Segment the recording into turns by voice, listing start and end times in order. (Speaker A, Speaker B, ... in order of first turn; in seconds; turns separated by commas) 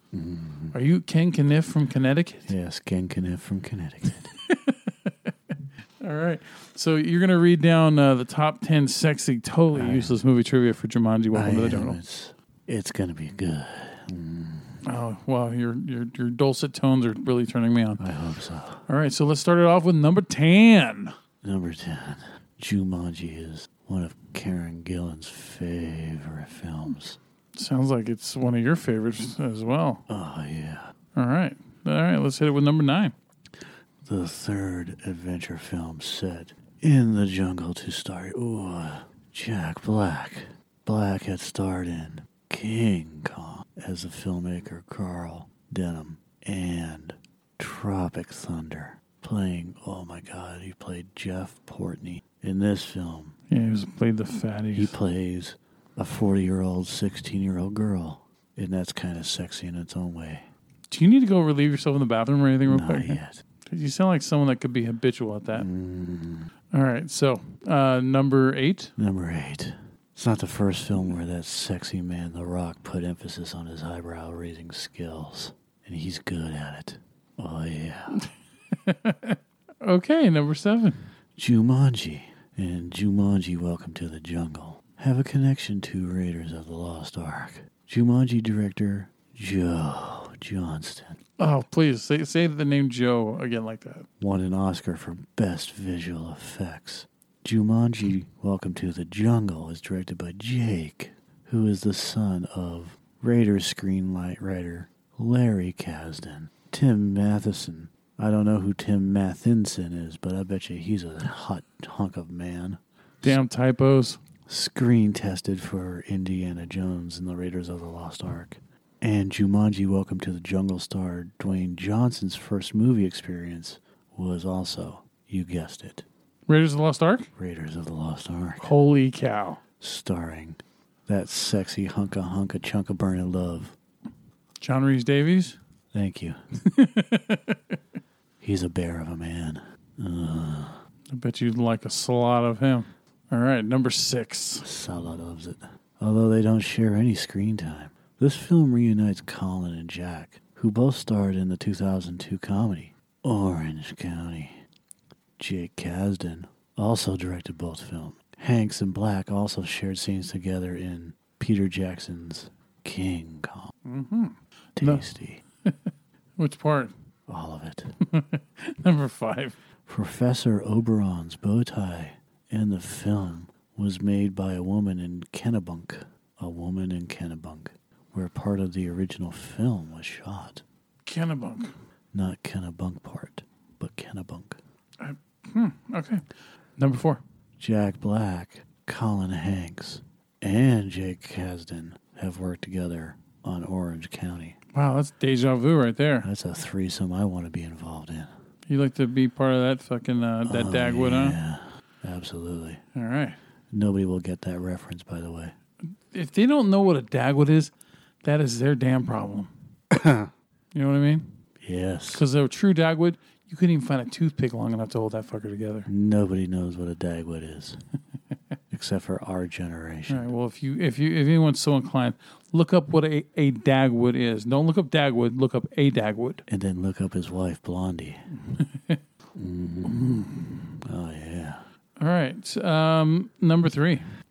Speaker A: 0.1-0.8, Speaker B: 0.7-2.5, Speaker A: 2.5-4.3, Speaker B: 4.3-5.3, Speaker B: 6.0-12.0, Speaker A: 9.7-10.2, Speaker A: 11.3-14.8, Speaker B: 14.9-18.0, Speaker A: 18.0-18.8, Speaker B: 18.9-21.1, Speaker A: 21.4-27.2, Speaker B: 27.6-30.0, Speaker A: 30.1-30.9, Speaker B: 31.1-33.1, Speaker A: 34.0-53.4, Speaker B: 53.5-55.0, Speaker A: 54.8-60.5, Speaker B: 60.9-65.7, Speaker A: 62.7-63.4, Speaker A: 65.5-66.5, Speaker B: 66.7-68.9, Speaker A: 69.0-78.3, Speaker B: 78.7-81.0, Speaker A: 81.4-91.2, Speaker B: 91.4-94.1, Speaker A: 94.2-113.4, Speaker B: 113.2-114.2, Speaker A: 114.5-126.1, Speaker B: 126.5-127.3, Speaker A: 127.3-128.8, Speaker B: 128.6-129.6, Speaker A: 129.8-133.8, Speaker B: 134.6-135.6, Speaker A: 135.9-136.4, Speaker B: 136.7-137.8, Speaker A: 138.4-140.8, Speaker B: 141.1-144.7, Speaker A: 144.6-154.6, Speaker A: 155.4-163.7, Speaker B: 163.8-165.1, Speaker A: 164.8-165.4, Speaker B: 165.7-166.9, Speaker A: 167.3-167.9, Speaker B: 168.1-169.6, Speaker A: 169.9-180.6, Speaker B: 181.1-181.7, Speaker A: 182.1-184.6, Speaker B: 185.0-186.2, Speaker B: 186.8-187.2, Speaker A: 187.6-194.6, Speaker B: 194.7-196.3, Speaker A: 196.2-198.3, Speaker B: 198.7-201.4, Speaker A: 200.5-202.8, Speaker B: 202.9-203.4, Speaker A: 203.7-205.6, Speaker B: 206.1-207.7, Speaker B: 208.2-209.5, Speaker A: 209.9-210.3, Speaker B: 210.7-211.3, Speaker A: 211.6-212.2, Speaker B: 212.1-215.9, Speaker A: 215.9-217.8, Speaker A: 218.7-220.3, Speaker B: 220.1-226.4, Speaker A: 226.5-228.2, Speaker B: 228.5-229.0, Speaker A: 229.4-231.6, Speaker B: 229.9-230.7, Speaker B: 232.0-234.0